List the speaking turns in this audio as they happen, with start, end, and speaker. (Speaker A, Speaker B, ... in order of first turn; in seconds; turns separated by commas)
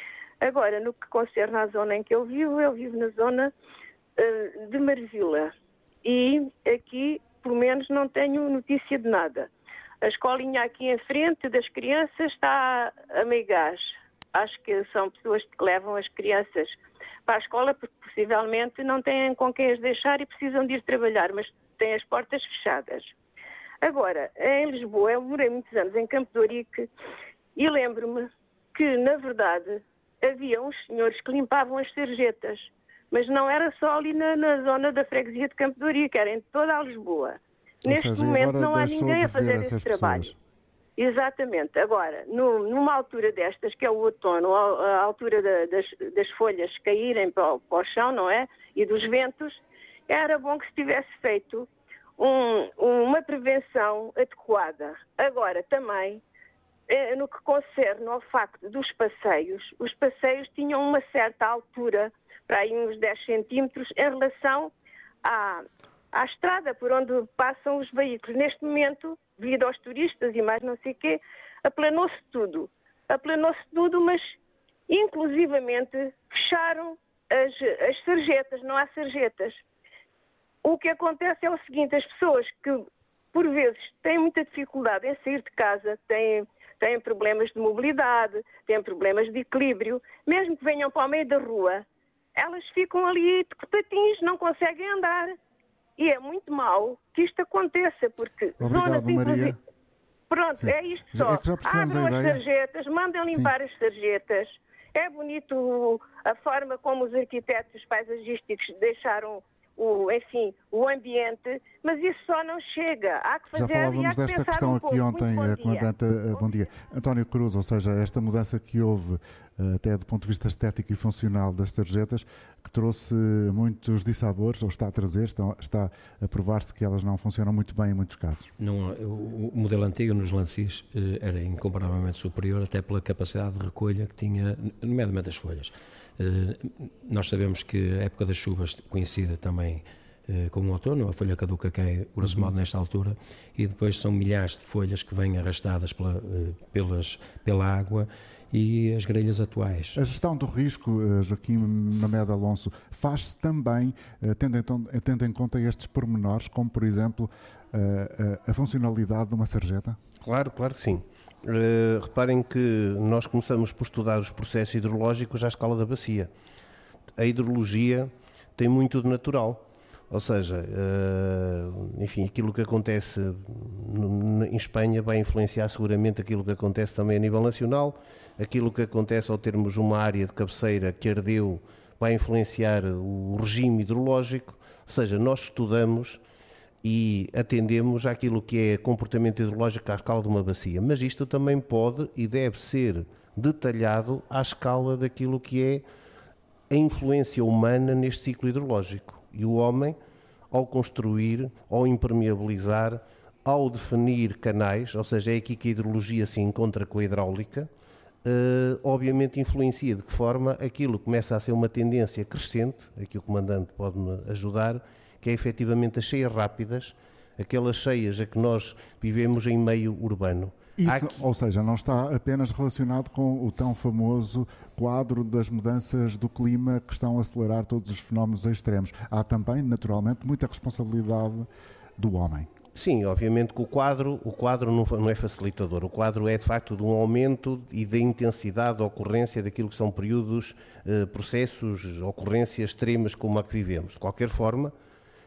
Speaker A: 0.4-3.5, Speaker A: 4.2-5.5, Speaker A: 6.0-9.5, Speaker A: 10.0-16.8, Speaker A: 17.3-23.1, Speaker A: 23.8-26.9, Speaker A: 27.6-40.3, Speaker B: 37.8-40.3, Speaker A: 41.0-51.7, Speaker A: 52.2-56.2, Speaker A: 56.9-64.7, Speaker A: 65.2-74.3, Speaker A: 74.9-79.6, Speaker A: 80.6-95.3, Speaker A: 96.0-99.5, Speaker B: 98.6-99.5, Speaker A: 100.3-115.9, Speaker B: 100.6-102.4, Speaker B: 113.5-128.5, Speaker C: 128.6-150.0, Speaker B: 142.2-142.5, Speaker B: 149.9-160.0, Speaker D: 160.2-166.3, Speaker D: 167.2-186.2, Speaker D: 186.8-195.8, Speaker D: 196.7-200.0, Speaker D: 200.5-207.7, Speaker D: 208.2-221.2, Speaker B: 220.8-232.5, Speaker D: 232.8-244.7